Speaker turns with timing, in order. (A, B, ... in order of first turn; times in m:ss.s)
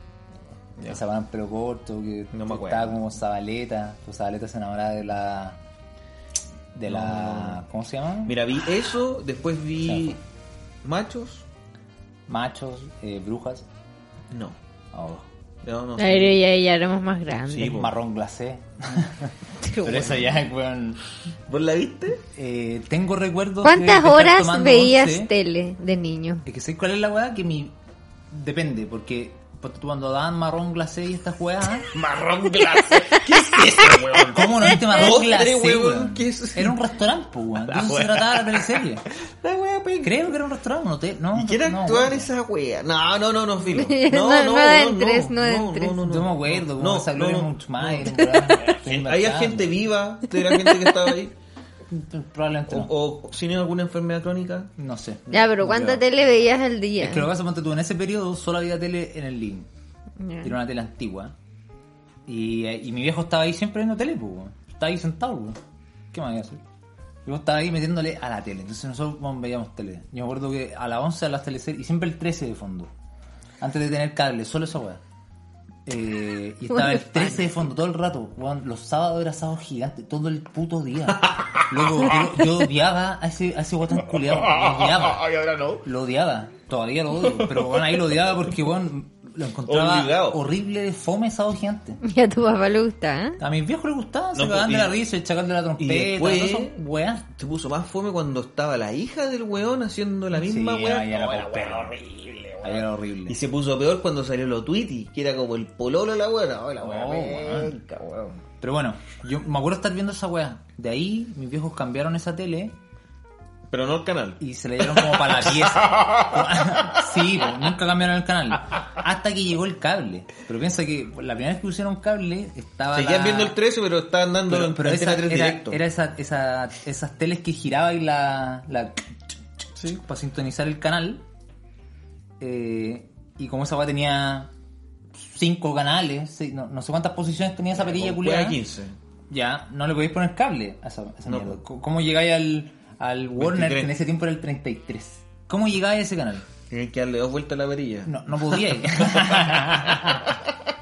0:00.8-0:01.0 A
0:00.9-0:05.6 B
0:02.3-0:03.0 A
0:06.7-0:08.4 B
0:06.9-0:07.6 A
0:08.2-0:10.2 A
0:09.8-0:10.2 B
0:10.8-0:11.4 A
0:12.3-0:13.6 B
0:14.3-0:14.6 A
0:14.9-0:15.3 B
0:15.6-0:16.4 A
0:16.0-0:17.8 C
0:17.5-0:17.9 A
0:17.6-0:21.0 B
0:19.6-0:20.3 C
0:21.5-0:22.2 A
0:22.3-0:25.3 B
0:23.6-0:26.4 C
0:26.4-0:27.7 B
0:28.3-0:31.9 B
0:31.9-0:36.8 A
0:33.0-0:34.1 C
0:34.3-0:39.0 B
0:37.6-0:40.2 A
0:40.0-0:42.3 B
0:41.3-0:51.4 A
0:43.7-0:46.0 C
0:46.0-0:49.8 B
0:48.2-0:48.6 C
0:50.4-0:51.0 C
0:51.9-0:52.9 B
0:52.7-0:54.7 A
0:54.8-0:56.0 B
0:55.3-0:55.9 A
0:55.3-0:57.3 C
0:57.0-0:59.7 B
1:00.2-1:00.5 C
1:00.4-1:01.3 B
1:02.3-1:05.6 B
1:06.1-1:06.6 B
1:07.2-1:12.9 B
1:13.6-1:15.0 B
1:15.8-1:25.2 B
1:16.7-1:17.3 C
1:21.2-1:22.2 A
1:24.0-1:25.8 A
1:25.8-1:32.0 B
1:27.2-1:28.1 A
1:29.7-1:30.4 A
1:32.0-1:33.4 C
1:33.4-1:37.2 B
1:34.3-1:35.0 A
1:35.8-1:36.8 A
1:37.3-1:48.4 A
1:40.3-1:42.0 B
1:42.6-1:43.4 B
1:46.8-1:47.8 B
1:48.6-1:52.8 B
1:53.7-1:56.9 A
1:54.4-2:03.6 B
2:02.9-2:05.8 A
2:04.5-2:11.2 B
2:12.4-2:14.5 B
2:15.2-2:18.6 B
2:17.7-2:19.0 A
2:19.3-2:26.5 B
2:21.3-2:21.6 A
2:23.4-2:23.9 A
2:26.7-2:30.6 A
2:28.0-2:30.4 B